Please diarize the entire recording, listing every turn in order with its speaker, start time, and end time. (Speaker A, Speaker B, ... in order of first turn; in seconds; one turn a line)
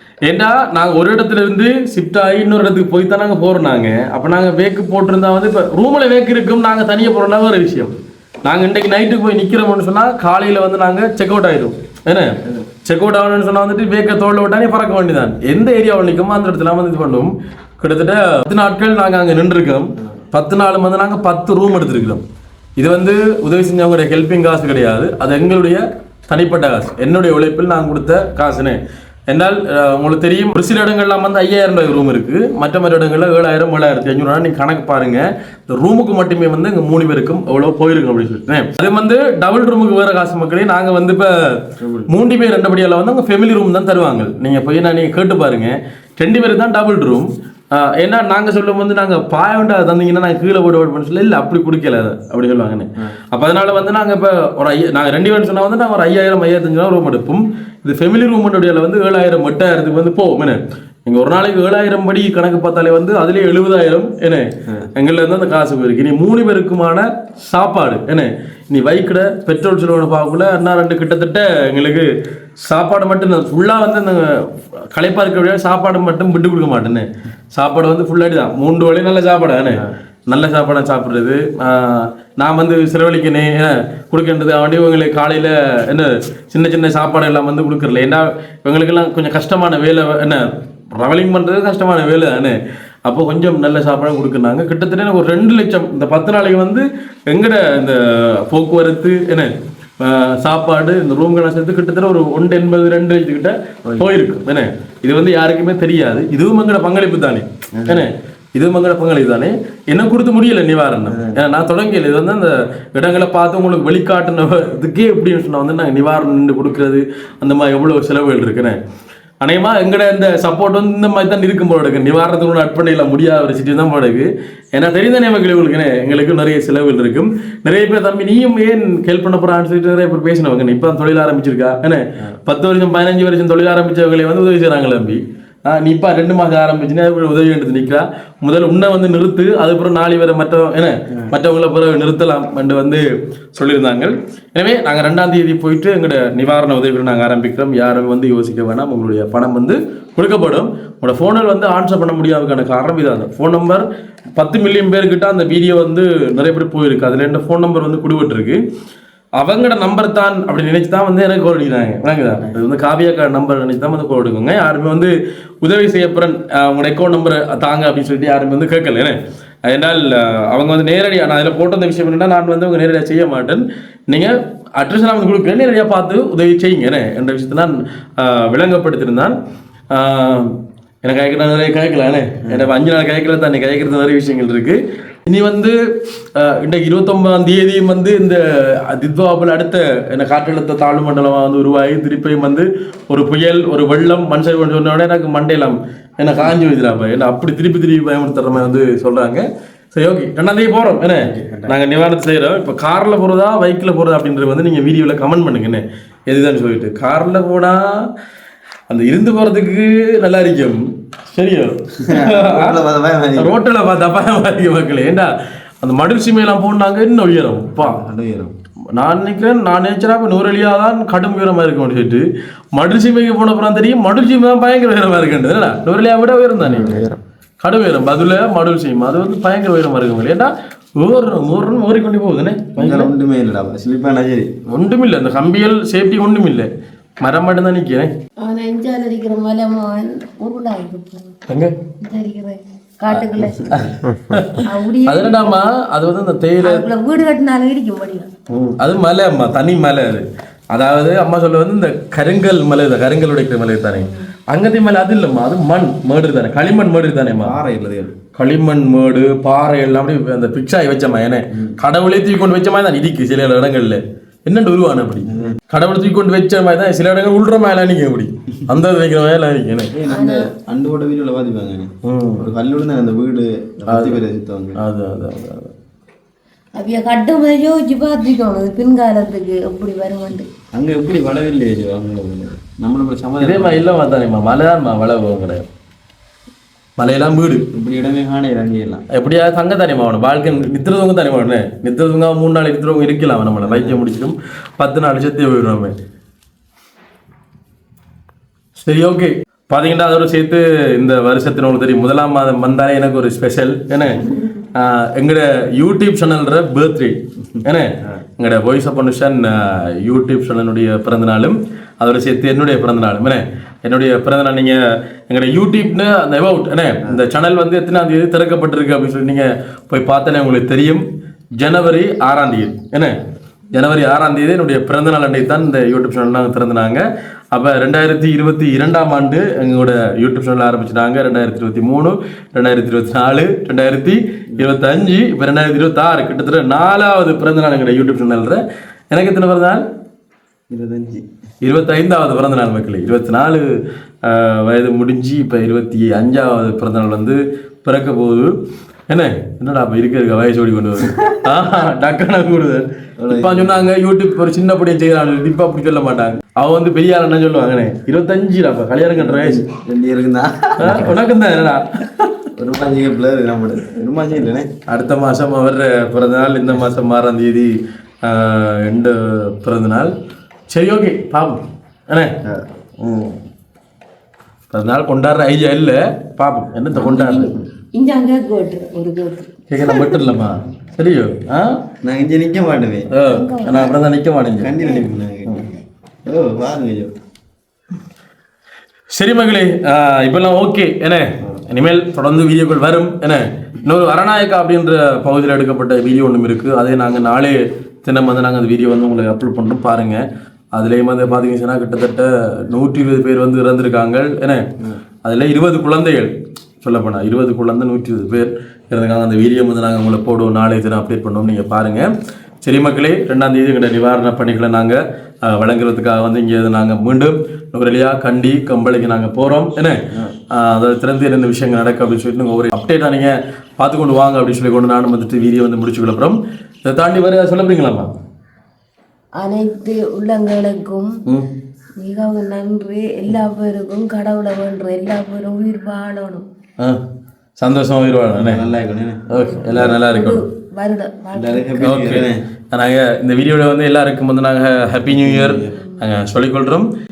Speaker A: 0.2-22.2
Speaker A: 22.8-28.8
Speaker A: 29.3-72.1
Speaker B: 41.8-42.1
Speaker A: 72.6-118.8
Speaker B: 103.8-104.1
Speaker B: 107.7-108.0
Speaker B: 111.1-111.4
Speaker A: 119.4-158.6
Speaker A: 159.4-179.3
Speaker A: 179.9-185.8
Speaker A: 186.3-208.1
Speaker B: 201.2-201.7
Speaker A: 208.9-212.8
Speaker B: 212.0-213.5
Speaker A: 213.3-218.0
Speaker B: 217.7-218.5
Speaker A: 218.9-227.0
Speaker B: 226.6-227.2
Speaker A: 227.6-233.1
Speaker B: 232.8-234.6
Speaker A: 234.7-236.7
Speaker A: 237.2-238.1
Speaker C: 238.4-241.4
Speaker A: 241.5-241.7
Speaker C: 242.0-243.7
Speaker B: 243.4-244.1
Speaker A: 243.7-246.8
Speaker C: 244.6-245.6
Speaker C: 246.6-248.3
Speaker A: 248.5-257.6
Speaker C: 254.0-254.3
Speaker B: 257.4-258.1
Speaker A: 258.3-269.9
Speaker B: 265.3-265.6
Speaker B: 269.9-274.8
Speaker C: 270.1-270.5
Speaker A: 272.0-272.5
Speaker A: 273.9-274.2
Speaker A: 274.8-275.7
Speaker C: 276.8-280.5
Speaker B: 280.7-284.0
Speaker A: 283.4-285.6
Speaker A: 287.0-287.7
Speaker B: 287.7-289.0
Speaker A: 289.1-295.9
Speaker B: 293.6-294.0
Speaker A: 298.8-321.0
Speaker A: 321.6-323.1
Speaker A: 323.7-338.6
Speaker A: 339.1-339.8
Speaker B: 340.7-341.2
Speaker A: 341.6-343.7
Speaker A: 344.2-348.5
Speaker A: 349.1-359.6
Speaker B: 351.0-351.4
Speaker B: 353.2-353.9
Speaker B: 359.2-361.1
Speaker A: 360.8-362.3
Speaker B: 362.6-364.7
Speaker A: 364.9-370.1
Speaker A: 370.7-372.3
Speaker A: 373.0-373.3
Speaker A: 374.7-377.5
Speaker C: 376.9-379.5
Speaker A: 379.7-381.8
Speaker B: 382.0-383.1
Speaker A: 383.1-384.7
Speaker C: 383.2-383.9
Speaker B: 384.6-385.7
Speaker C: 384.8-385.1
Speaker B: 386.2-387.1
Speaker A: 389.1-404.7
Speaker A: 405.2-412.1
Speaker A: 412.6-420.0
Speaker A: 420.5-428.1
Speaker C: 429.4-431.2
Speaker C: 432.0-436.4
Speaker A: 437.6-438.6
Speaker B: 438.4-440.0
Speaker A: 439.3-440.4
Speaker C: 439.7-441.7
Speaker B: 441.3-442.4
Speaker A: 441.8-446.9
Speaker B: 445.1-445.8
Speaker C: 445.8-446.0